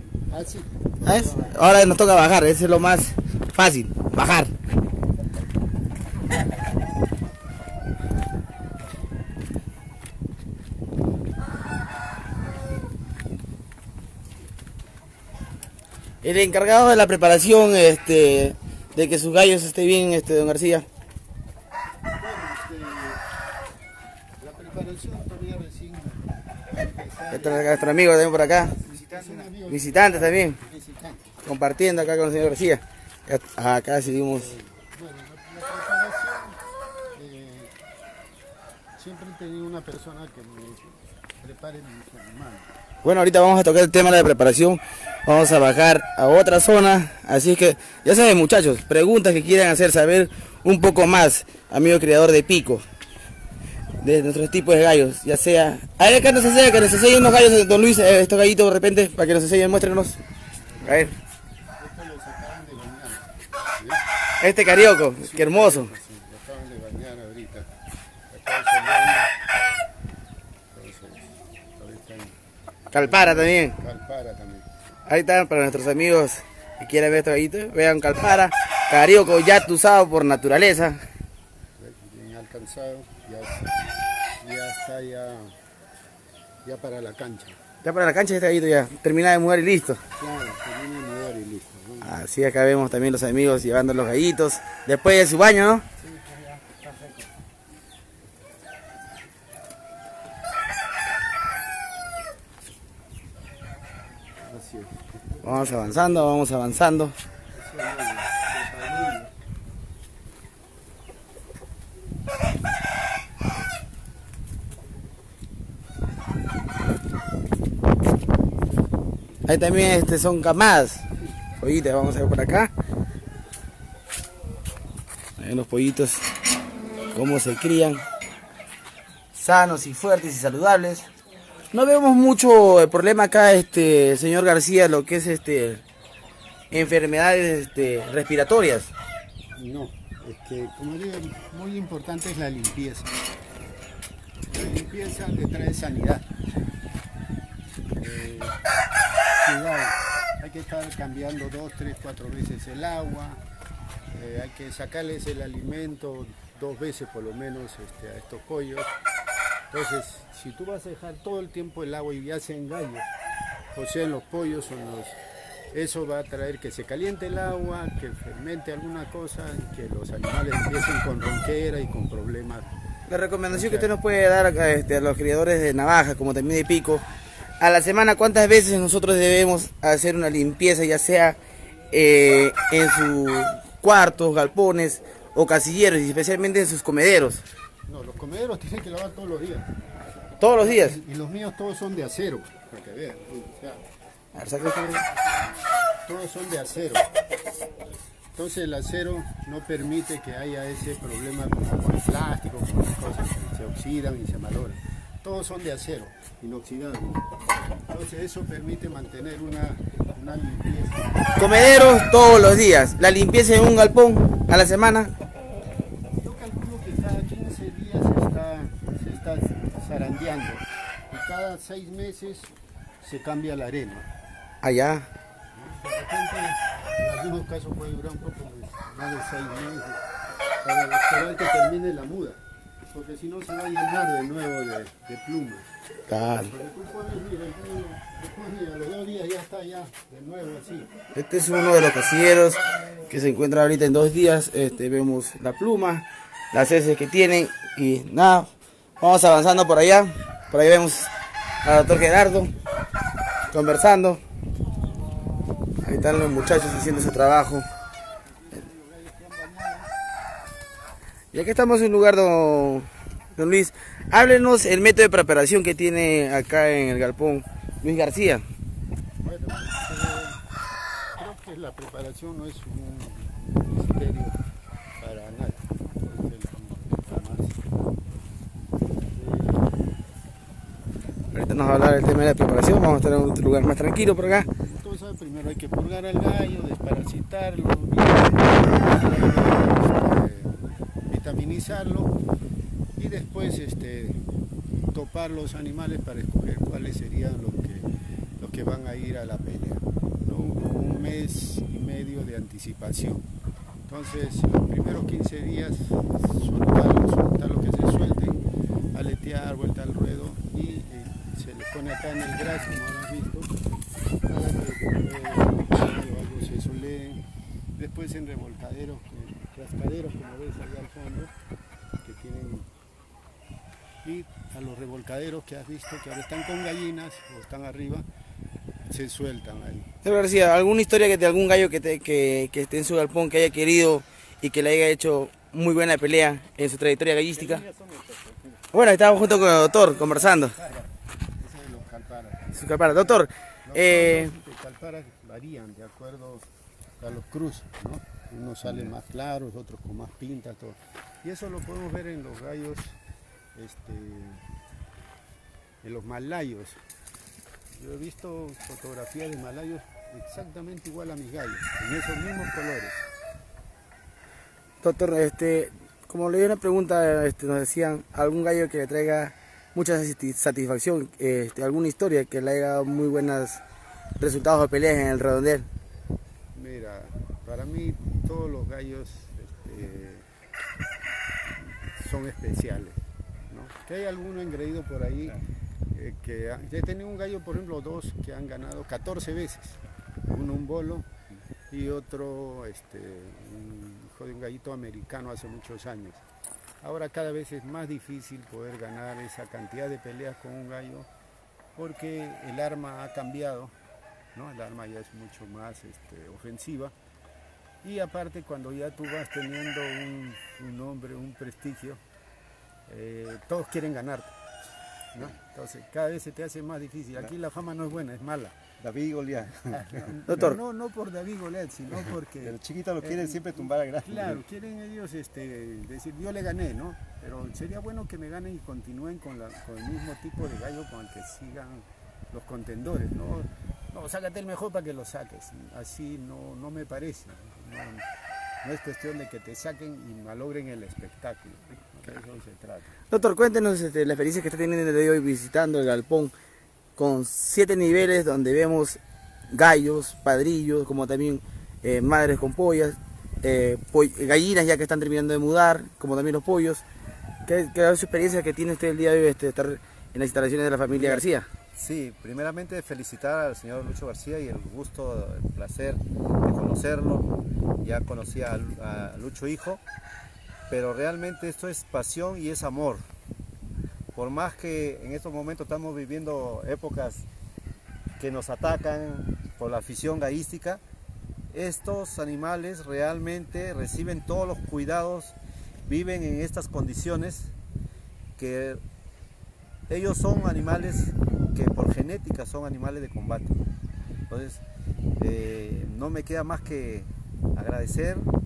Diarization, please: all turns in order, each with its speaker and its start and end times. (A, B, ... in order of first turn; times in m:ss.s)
0:00.3-0:01.9 A
0:01.0-0:04.5 B
0:16.2-0:20.8 B
0:22.1-0:23.2 A
0:24.4-0:27.9 A
0:27.3-0:30.6 B
0:28.7-0:31.4 A
0:31.4-0:34.5 B
0:34.2-0:36.6 A
0:37.1-0:37.7 A
0:39.0-0:42.7 A
0:43.0-0:52.8 B
0:54.0-1:00.2 B
1:00.7-1:01.1 A
1:00.8-1:01.1 B
1:01.8-1:04.0 A
1:04.4-1:05.9 B
1:05.2-1:07.7 A
1:08.3-1:09.3 A
1:10.7-1:12.4 A
1:12.9-1:14.8 A
1:12.9-1:13.7 B
1:15.0-1:21.0 B
1:21.8-1:23.7 A
1:24.4-1:25.5 A
1:26.6-1:27.6 A
1:27.8-1:30.0 B
1:30.2-1:32.1 A
1:32.0-1:35.8 B
1:36.0-1:37.3 A
1:44.4-1:46.3 A
1:45.4-1:47.2 B
1:47.5-1:49.3 A
1:59.4-2:01.0 B
2:01.6-2:02.7 B
2:05.4-2:06.2 B
2:07.1-2:08.0 B
2:09.3-2:11.1 B
2:11.7-2:15.8 B
2:16.7-2:18.9 B
2:19.6-2:23.1 A
2:24.5-2:26.3 A
2:27.9-2:28.6 A
2:29.4-2:33.4 A
2:34.1-2:38.9 A
2:39.7-2:43.1 A
2:43.7-2:45.2 A
2:45.7-2:52.7 A
2:53.1-2:57.0 B
2:53.5-2:53.9 A
2:57.6-3:01.4 B
3:01.9-3:07.4 B
3:07.9-3:09.8 A
3:10.4-3:11.0 B
3:10.5-3:13.8 A
3:14.3-3:15.0 B
3:16.0-3:17.1 A
3:18.3-3:27.2 A
3:27.9-3:31.3 A
3:31.4-3:35.1 B
3:36.2-3:44.1 A
3:44.6-3:45.1 B
3:45.5-3:50.0 A
3:50.6-4:00.9 A
3:56.1-3:56.5 B
4:01.1-4:11.1 B
4:11.6-4:12.5 B
4:13.5-4:14.2 B
4:15.8-4:17.7 B
4:18.3-4:19.9 A
4:21.3-4:28.4 B
4:29.2-4:30.4 A
4:31.2-4:34.4 A
4:35.0-4:37.6 A
4:39.0-4:39.8 A
4:41.3-4:44.5 B
4:44.2-4:50.6 A
4:51.1-4:52.1 A
4:53.0-4:54.2 A
4:54.9-5:03.2 A
5:03.9-5:13.5 A
5:14.2-5:17.2 A
5:17.7-5:21.3 A
5:22.0-5:22.7 A
5:24.0-5:28.0 A
5:28.9-5:29.9 A
5:30.0-5:37.6 B
5:37.5-5:38.3 A
5:38.7-5:40.5 B
5:39.8-5:46.4 A
5:42.5-5:44.3 B
5:47.0-5:53.0 A
5:53.5-5:54.4 A
5:55.8-5:56.8 A
5:57.7-6:03.0 A
6:04.8-6:13.6 B
6:14.2-6:15.6 B
6:16.5-6:20.2 A
6:21.6-6:25.4 A
6:25.9-6:31.1 A
6:31.7-6:36.2 A
6:36.8-6:41.1 A
6:41.8-6:43.7 A
6:44.3-6:46.9 A
6:47.8-6:52.0 A
6:52.9-6:54.3 A
6:55.1-6:58.6 A
6:58.8-7:00.0 C
6:59.7-7:18.0 A
7:00.3-7:00.6 B
7:02.4-7:04.4 C
7:18.6-7:22.9 A
7:23.1-7:26.3 B
7:27.0-7:29.0 B
7:29.5-7:36.8 B
7:37.4-7:41.5 B
7:40.9-7:47.3 C
7:47.8-7:49.8 C
7:50.7-7:53.0 C
7:54.1-7:57.3 C
7:58.2-8:00.8 C
8:01.5-8:05.3 C
8:05.9-8:07.5 C
8:08.4-8:08.8 C
8:09.9-8:13.6 C
8:14.3-8:14.6 C
8:15.2-8:18.3 C